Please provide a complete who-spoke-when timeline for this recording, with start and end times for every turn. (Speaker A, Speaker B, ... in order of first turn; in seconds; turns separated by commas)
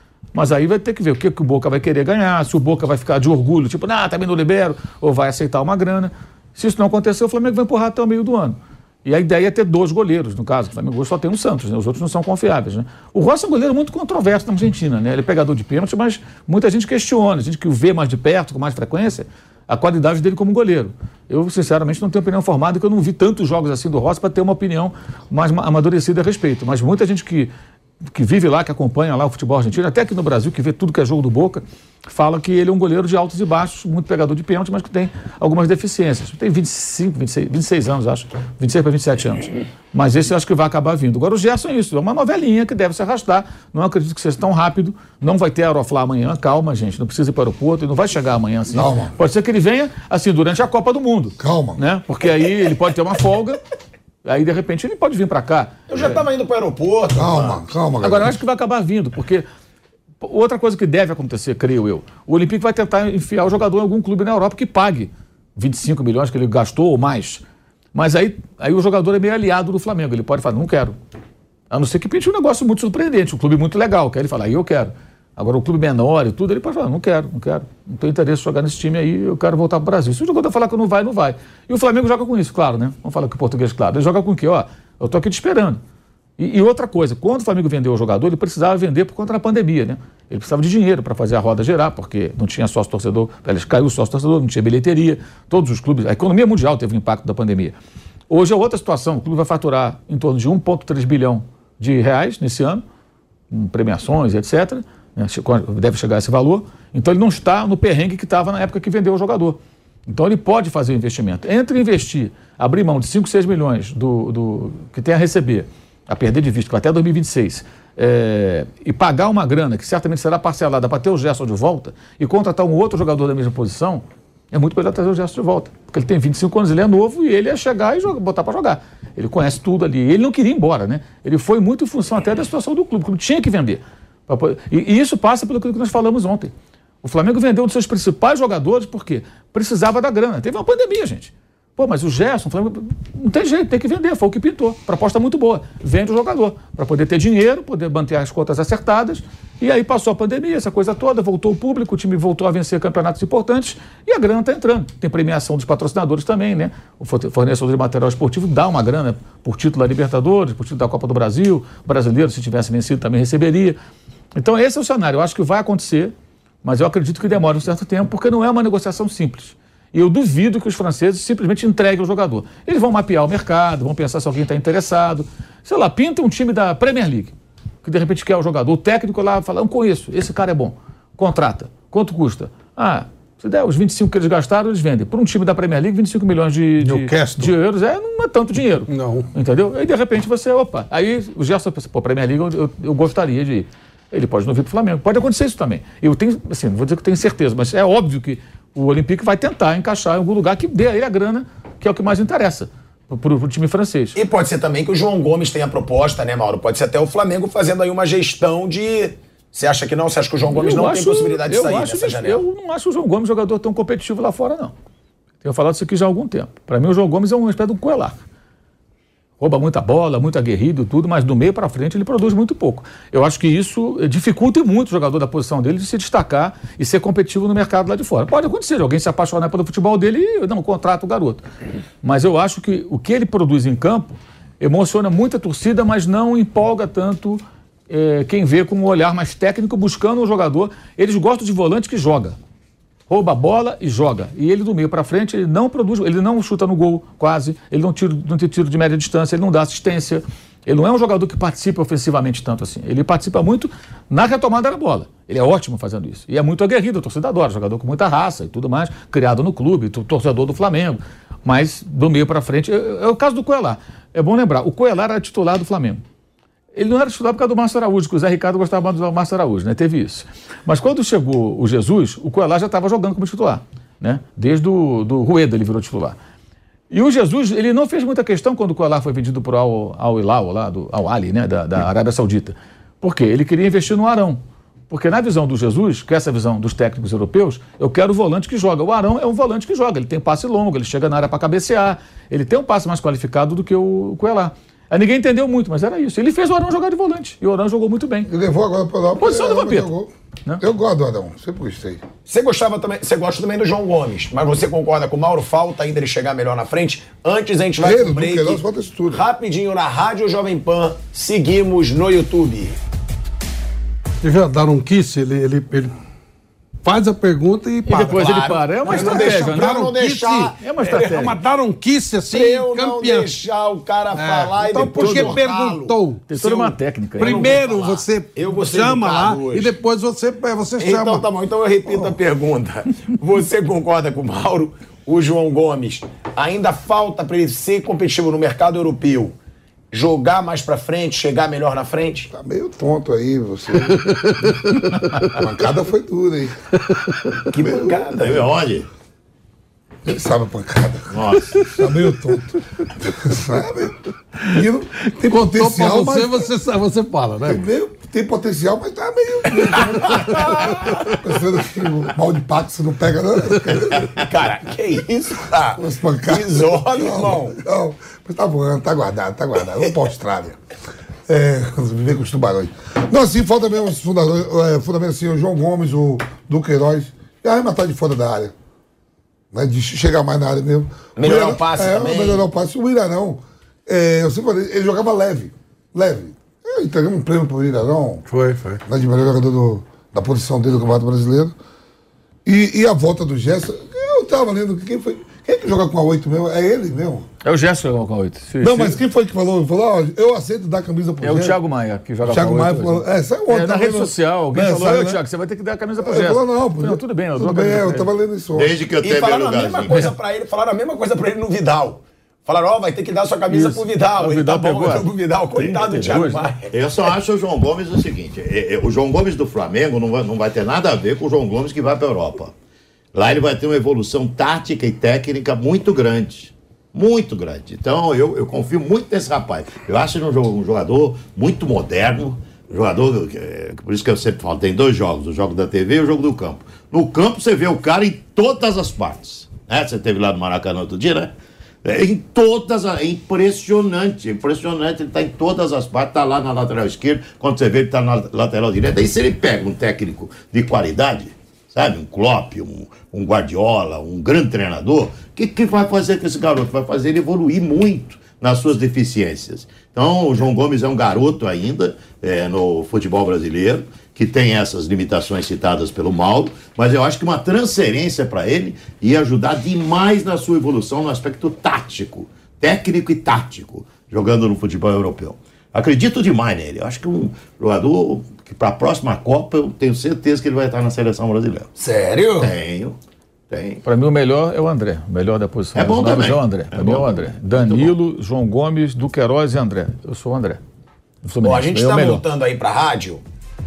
Speaker A: 0.3-27.5, Speaker A: 28.0-53.6, Speaker B: 48.7-49.1, Speaker B: 51.4-51.8, Speaker A: 54.2-56.2, Speaker C: 55.9-57.7, Speaker B: 57.1-58.4, Speaker A: 58.0-59.5, Speaker A: 60.2-67.4, Speaker A: 67.9-71.0, Speaker A: 71.7-85.8, Speaker A: 86.4-97.8, Speaker A: 98.3-102.8, Speaker A: 103.5-136.5, Speaker A: 137.0-163.8, Speaker A: 164.3-204.2, Speaker D: 186.8-187.6, Speaker D: 188.9-189.3, Speaker C: 204.2-212.4, Speaker A: 210.5-214.7, Speaker A: 215.4-218.2, Speaker A: 219.4-231.4, Speaker A: 232.0-242.4, Speaker A: 243.1-266.0, Speaker A: 266.7-276.2, Speaker A: 276.9-298.3, Speaker B: 298.3-302.0, Speaker A: 299.2-299.9, Speaker C: 302.3-312.8, Speaker B: 307.8-309.2, Speaker D: 314.2-316.0, Speaker D: 316.8-323.4, Speaker A: 317.9-319.8, Speaker C: 317.9-321.4, Speaker A: 320.6-321.4, Speaker C: 322.3-326.0, Speaker D: 324.1-331.3, Speaker A: 326.3-327.6, Speaker C: 327.2-329.8, Speaker C: 330.8-339.3, Speaker D: 331.9-332.2, Speaker C: 339.9-342.3, Speaker B: 342.3-344.1, Speaker D: 344.1-344.8, Speaker B: 345.3-346.6, Speaker C: 347.5-348.5, Speaker E: 347.5-348.9, Speaker B: 350.1-356.5, Speaker E: 351.1-351.8, Speaker D: 355.2-357.7, Speaker B: 357.4-364.1, Speaker C: 359.8-360.8, Speaker C: 363.8-367.6, Speaker B: 365.8-370.6, Speaker B: 371.3-378.5, Speaker B: 379.5-388.2, Speaker C: 381.2-382.4, Speaker D: 388.3-388.8, Speaker B: 388.9-391.6, Speaker B: 392.4-397.3, Speaker A: 397.4-399.0, Speaker B: 398.6-401.6, Speaker A: 401.2-408.1, Speaker B: 402.2-405.2, Speaker B: 406.0-408.8, Speaker E: 408.5-410.1, Speaker C: 409.0-416.8, Speaker A: 413.5-416.4, Speaker E: 416.7-422.5, Speaker E: 423.1-441.3, Speaker E: 441.8-481.7, Speaker C: 481.8-482.5, Speaker E: 482.4-483.0, Speaker E: 483.5-483.8, Speaker A: 483.8-490.6, Speaker E: 485.8-487.9, Speaker A: 491.2-492.2, Speaker C: 491.4-493.2